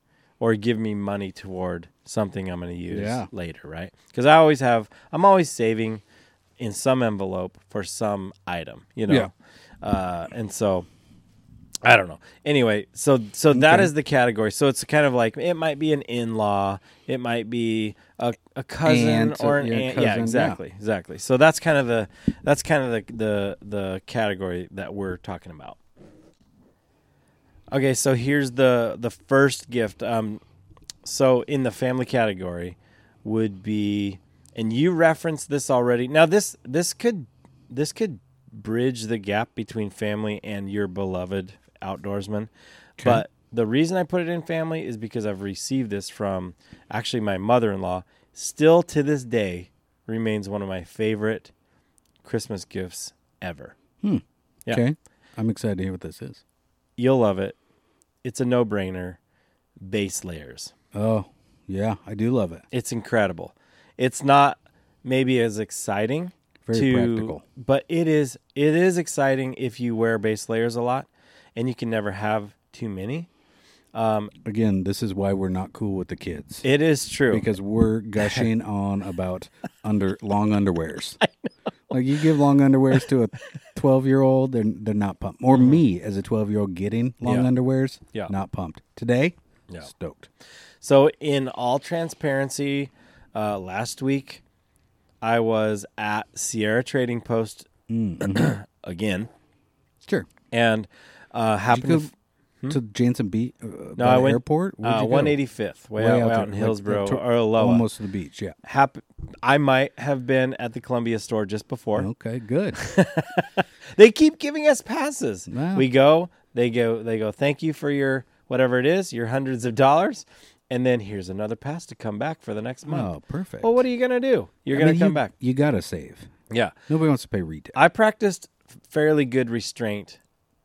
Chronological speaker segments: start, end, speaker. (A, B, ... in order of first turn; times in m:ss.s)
0:00.4-0:06.0 A
0:02.9-0:03.3 B
0:06.6-0:10.9 A
0:11.8-0:25.8 A
0:13.5-0:13.9 B
0:18.8-0:20.6 B
0:27.7-0:30.4 A
0:31.0-0:42.5 A
0:43.0-0:43.2 B
0:43.0-0:51.5 A
0:52.2-0:53.7 A
0:54.0-0:56.4 B
0:57.0-0:57.6 A
0:58.2-0:59.2 A
0:59.8-1:00.7 A
1:00.9-1:02.6 B
1:02.7-1:13.3 A
1:06.6-1:07.4 B
1:13.9-1:14.3 A
1:14.4-1:16.6 B
1:16.6-1:17.5 A
1:17.3-1:21.2 B
1:18.2-1:18.5 A
1:21.2-1:21.5 A
1:21.9-1:30.3 B
1:25.5-1:25.8 A
1:27.2-1:27.5 A
1:30.8-1:34.4 A
1:35.2-1:37.7 A
1:37.9-1:38.5 B
1:38.2-1:39.3 A
1:40.5-1:42.1 A
1:41.7-1:42.1 B
1:42.7-1:45.4 B
1:44.0-1:47.8 A
1:46.0-1:48.6 B
1:48.6-1:52.1 A
1:52.0-1:52.8 B
1:52.8-2:03.1 A
1:55.5-1:55.9 B
2:02.8-2:03.8 B
2:03.6-2:05.3 A
2:04.7-2:06.3 B
2:06.9-2:07.8 B
2:07.7-2:10.2 A